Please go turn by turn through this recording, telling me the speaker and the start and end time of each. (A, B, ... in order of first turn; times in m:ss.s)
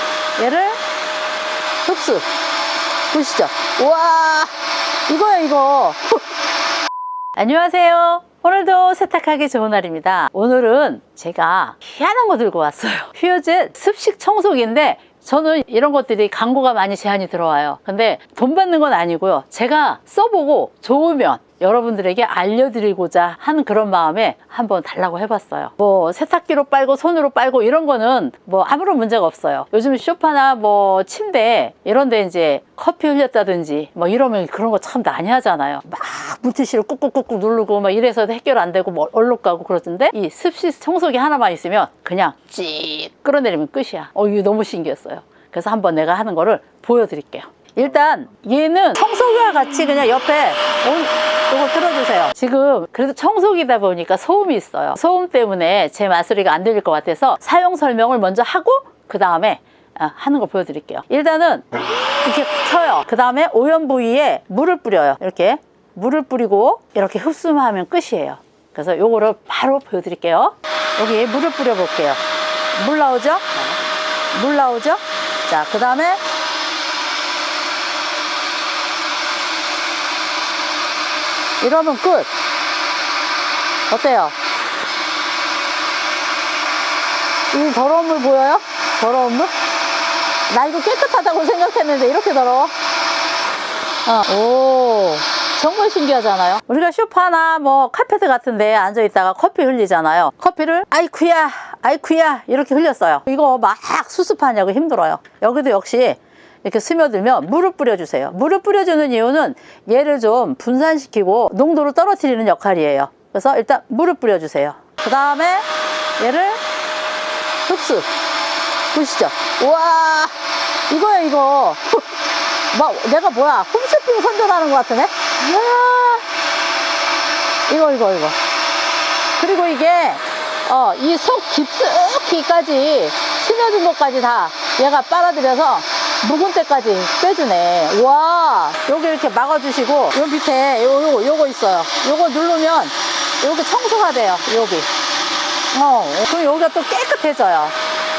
0:00.4-0:00.8 A
0:01.8-0:02.2 A
0:03.1-0:04.5 A
0:05.1-0:06.2 A
0:07.4-1:01.7 A
1:02.2-1:12.2 A
1:12.7-1:13.6 A
1:14.3-1:16.2 A
1:21.6-1:22.3 A
1:23.9-1:24.4 A
1:27.5-1:29.5 A
1:30.5-1:32.7 A
1:34.1-1:55.7 A
1:56.2-1:56.6 A
1:57.7-1:58.1 A
1:58.9-2:00.4 A
2:00.9-2:02.1 A
2:02.7-2:06.2 A
2:07.7-2:08.4 A
2:09.4-2:24.9 A
2:25.7-2:27.8 A